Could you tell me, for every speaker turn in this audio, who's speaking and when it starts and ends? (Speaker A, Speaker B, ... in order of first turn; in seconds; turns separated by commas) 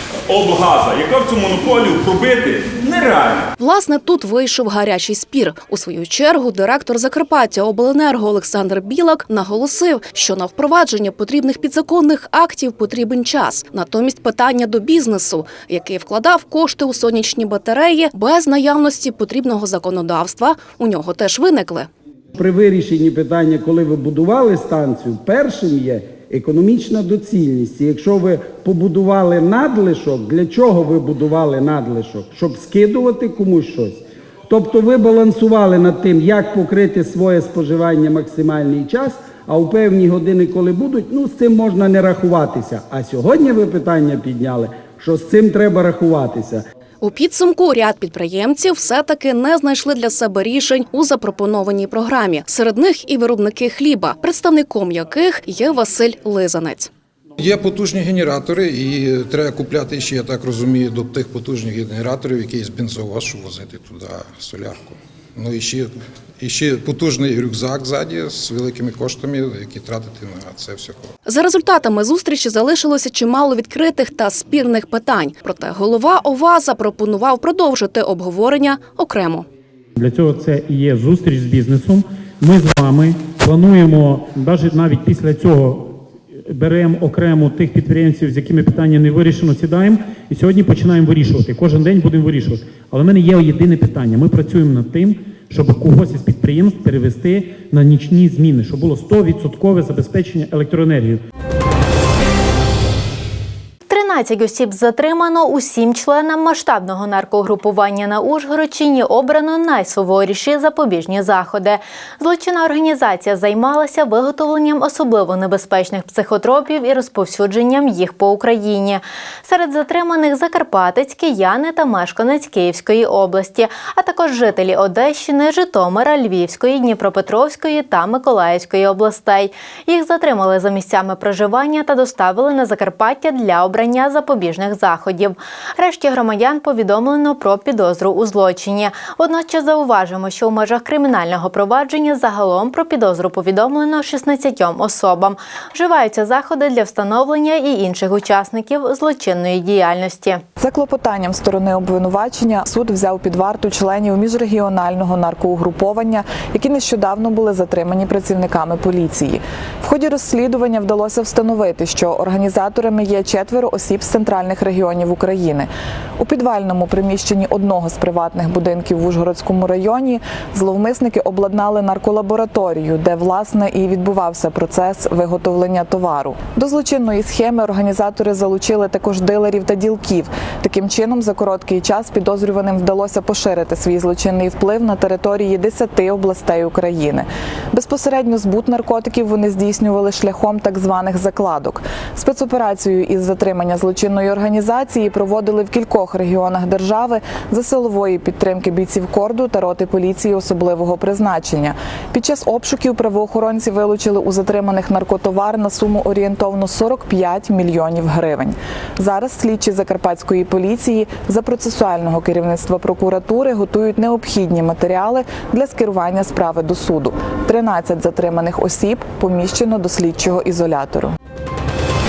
Speaker A: 0.3-3.5, Speaker B: 3.6-21.9, Speaker C: 22.3-46.6, Speaker B: 47.0-56.9, Speaker D: 57.4-71.1, Speaker B: 71.2-79.5, Speaker E: 80.0-101.2, Speaker F: 103.9-150.4, Speaker G: 150.6-221.1